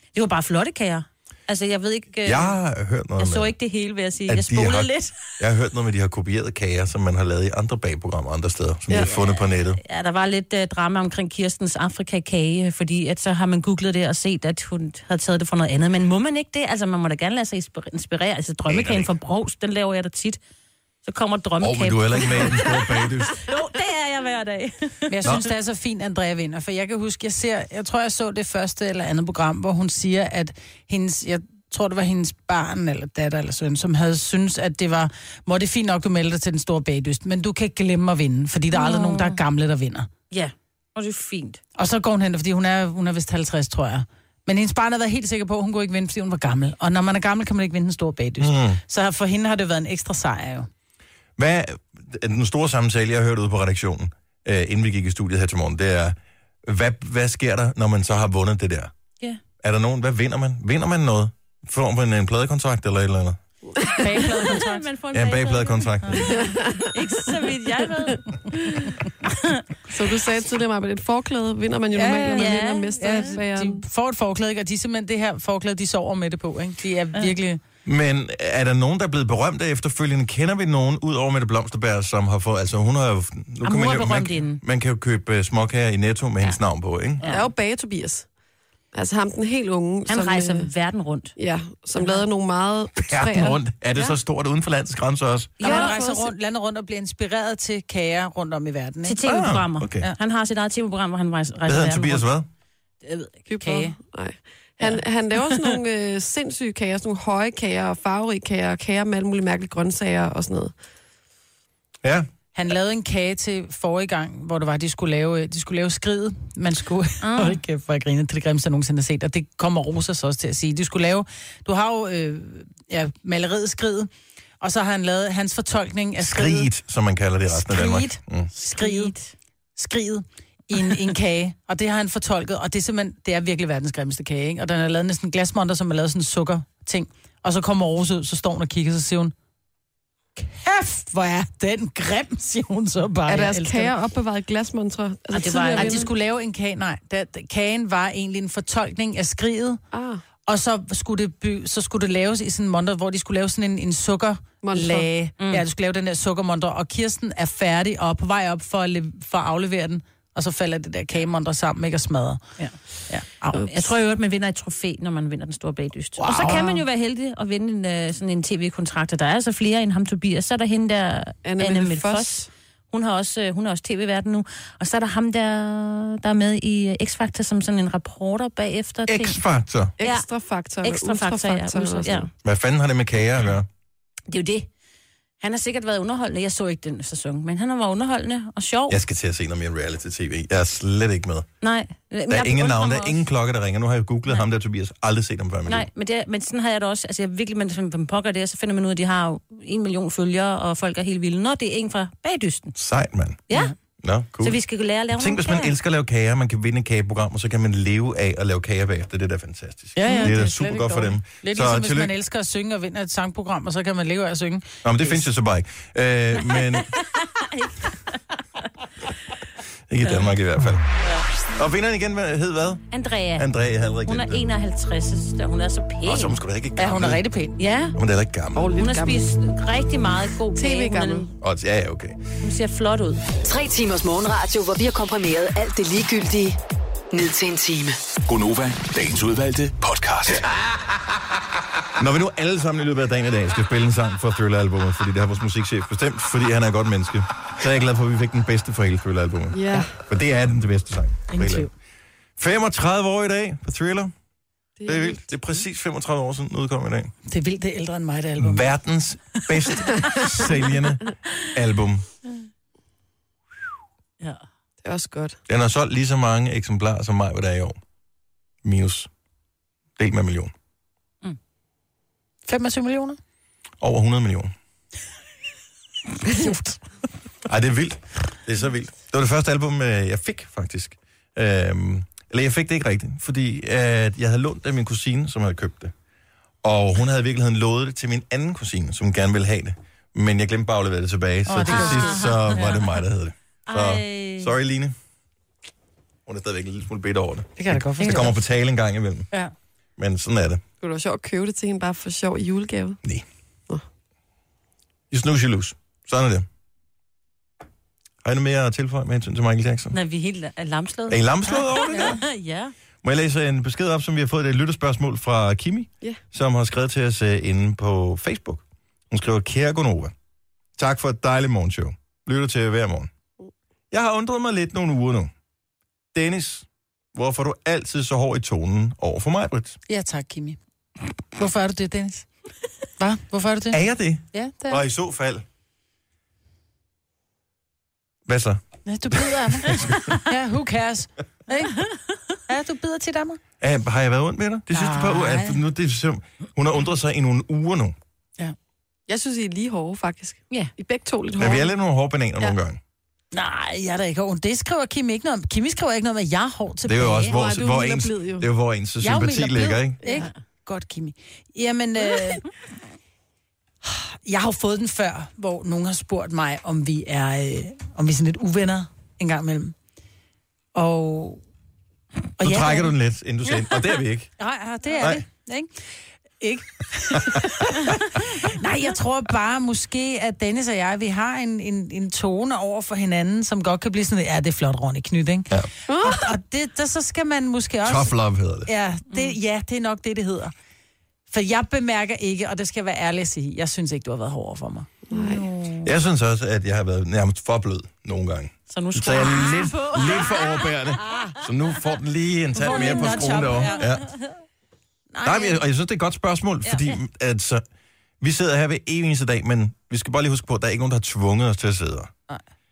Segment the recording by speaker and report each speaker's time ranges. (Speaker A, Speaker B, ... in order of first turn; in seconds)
Speaker A: 0.1-2.5, 3.2-5.2, 9.0-20.4, 21.0-25.4, 38.7-39.4, 40.3-41.6, 64.2-69.6, 72.2-73.3, 83.6-84.6, 87.2-87.5, 90.1-91.3, 92.0-92.2, 95.6-96.2, 99.0-102.2, 103.0-103.3, 117.2-117.6, 128.8-129.3, 145.3-146.1, 163.7-179.4, 180.0-180.3, 180.8-182.3, 184.3-184.7, 185.4-189.0, 191.6-193.2, 195.7-202.7, 204.4-205.7, 216.5-218.2, 222.9-223.5, 224.1-226.3, 227.6-228.0, 228.8-231.3, 232.4-233.2, 291.6-292.9, 293.7-294.5, 309.9-312.7, 398.7-400.7, 402.7-403.9, 406.6-407.0
Speaker B: 2.2-3.5, 4.3-9.8, 18.7-19.1, 21.6-23.5, 48.4-48.8, 51.4-58.9, 59.6-63.4, 65.1-66.4, 77.8-87.2, 93.1-95.6, 99.2-100.1, 101.7-102.5, 112.0-112.3, 126.2-128.5, 179.1-179.9, 182.4-183.7, 188.9-191.5, 192.3-195.9, 202.8-203.4, 204.0-204.6, 205.1-212.1, 214.8-216.9, 219.9-220.8, 221.6-224.4, 226.0-227.2, 227.9-228.7, 231.4-232.2, 242.0-251.7, 252.4-254.1, 254.8-257.1, 258.4-262.0, 265.5-267.8, 268.6-269.1, 270.0-270.5, 273.8-274.5, 277.4-285.9, 286.6-294.9, 296.2-299.3, 300.0-300.6, 305.1-306.4, 308.2-309.9, 311.1-312.2, 313.0-320.1, 320.8-323.1, 323.9-325.3, 326.1-329.8, 333.7-335.4, 338.2-338.6, 339.1-340.1, 343.6-347.9, 351.4-352.8, 356.8-360.0, 372.4-374.3, 375.0-375.2, 377.2-377.5, 387.8-388.7, 395.8-404.1, 405.2-407.6, 408.2-412.1
Speaker C: 25.1-40.1, 41.8-50.7, 64.0-64.8, 66.0-66.3, 71.9-77.6, 95.6-99.2, 103.6-103.9, 112.5-124.1, 124.6-126.7, 127.5-129.1, 129.8-139.3, 140.4-143.9, 145.4-149.8, 150.4-162.6, 163.1-163.7, 166.2-166.8, 209.9-215.2, 226.8-227.5, 251.3-251.7, 257.3-258.7, 272.5-273.2, 291.4-292.6, 297.6-298.3, 311.9-312.2, 329.9-330.6, 331.4-332.3, 333.0-333.8, 334.3-334.8, 338.9-341.9, 342.5-343.4, 344.7-345.6, 353.3-357.3, 359.0-362.5, 363.8-369.7, 370.7-371.4, 372.4-372.9, 374.4-375.7, 376.4-388.1, 388.6-390.5, 391.3-395.4, 402.6-403.9, 405.1-405.5
Speaker D: 66.3-66.9, 69.9-73.8, 87.3-88.3, 88.9-90.7, 91.4-93.6, 95.6-96.2, 103.5-110.7, 143.3-146.1, 149.9-150.2, 154.6-155.1, 171.4-172.5, 180.0-182.3, 228.6-229.2, 230.5-231.3, 249.5-249.9, 254.8-255.3, 264.8-265.4, 300.8-303.0, 349.1-351.7, 357.3-358.5, 385.9-386.2, 395.1-395.4
Speaker E: 233.4-236.6, 237.1-238.0
Speaker F: 238.3-240.4